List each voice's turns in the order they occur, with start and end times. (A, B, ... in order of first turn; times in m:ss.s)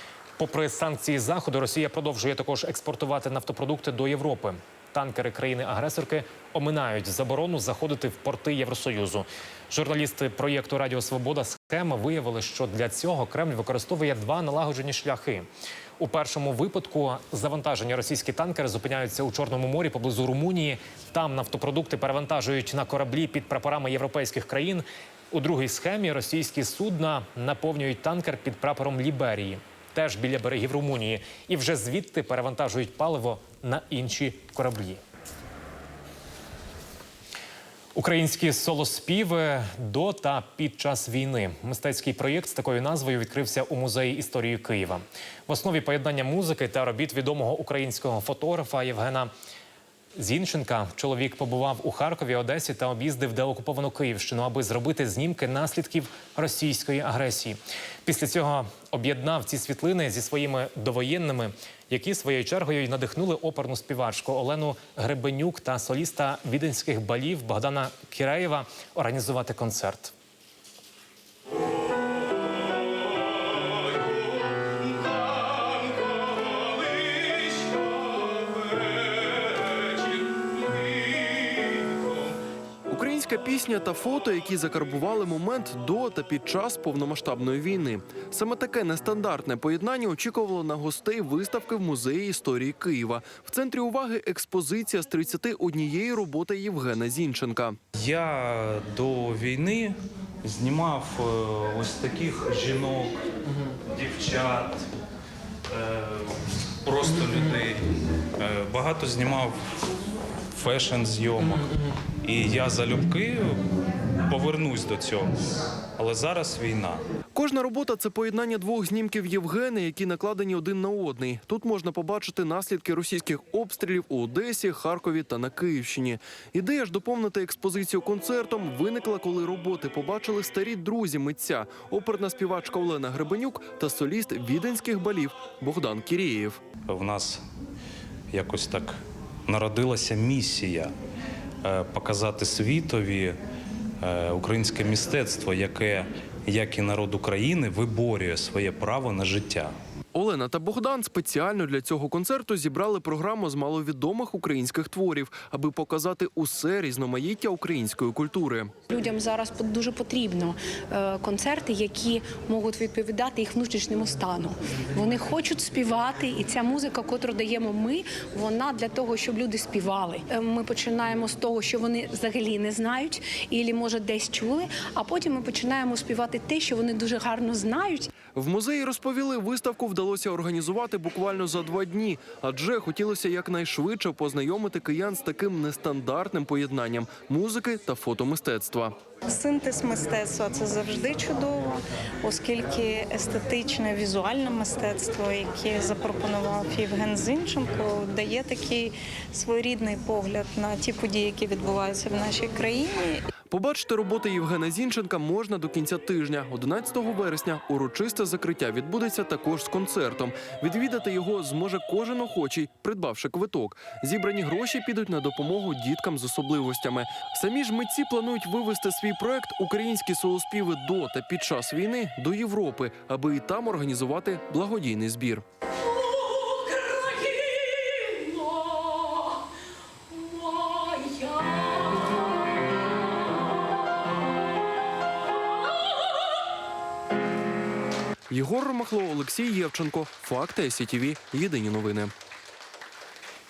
0:00.4-0:15.5 A
0:16.0-0:35.0 A
0:38.0-0:49.3 A
0:50.2-1:10.1 A
1:22.9-1:37.8 B
1:38.0-1:43.2 C
1:43.9-1:44.9 C
1:45.7-1:47.9 C
1:48.4-1:49.6 C
1:50.5-1:51.7 C
1:52.2-1:53.6 C
1:54.3-1:55.3 C
1:56.0-1:57.0 C
1:57.4-2:16.6 B
2:16.8-2:17.4 C
2:18.3-2:20.9 C
2:21.6-2:23.4 C
2:24.0-2:29.8 C
2:30.2-2:38.7 B
2:38.9-2:58.1 D
2:58.3-3:09.0 B
3:09.3-3:23.2 E
3:23.5-3:45.4 B
3:46.6-3:48.2 D
3:58.3-4:02.1 B